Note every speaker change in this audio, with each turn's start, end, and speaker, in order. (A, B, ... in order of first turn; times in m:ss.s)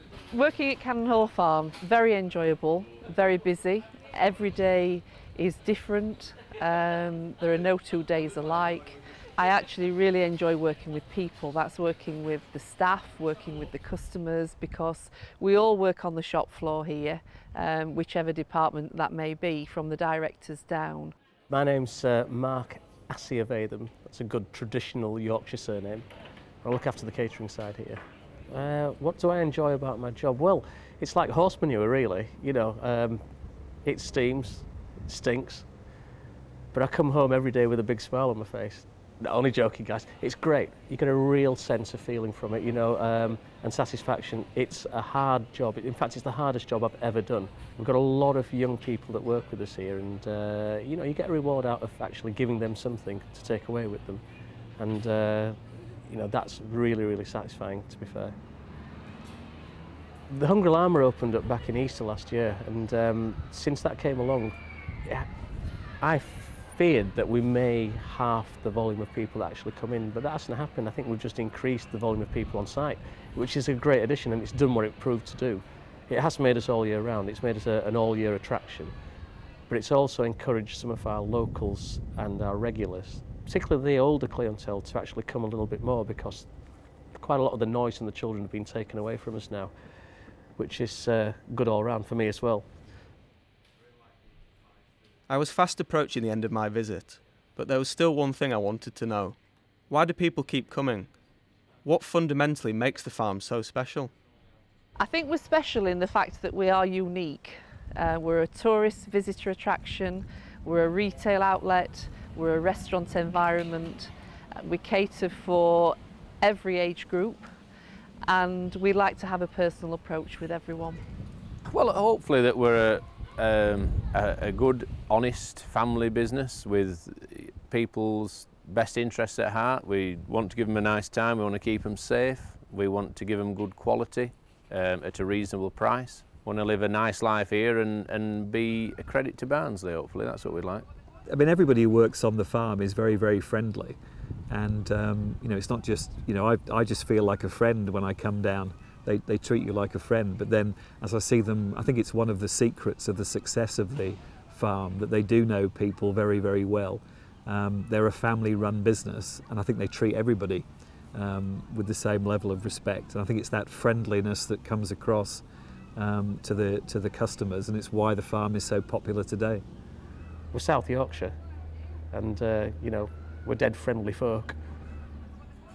0:00.3-0:21.1 A
0:21.5-0:26.1 B
0:26.6-0:33.2 B
0:33.8-0:35.7 B
0:36.7-0:54.2 B
0:54.8-0:58.4 B
1:00.3-1:04.5 B
1:06.0-1:18.9 B
1:19.7-1:26.5 B
1:27.2-1:29.7 B
1:30.6-1:32.7 B
1:35.3-1:39.4 C
1:39.9-1:41.1 C
1:41.8-1:44.1 C
1:45.0-1:57.5 A
1:58.3-2:01.0 A
2:01.7-2:20.8 D
2:21.3-2:24.0 E
2:24.5-2:45.4 E
2:46.0-2:49.6 E
2:50.5-2:51.4 B
2:52.1-2:54.6 B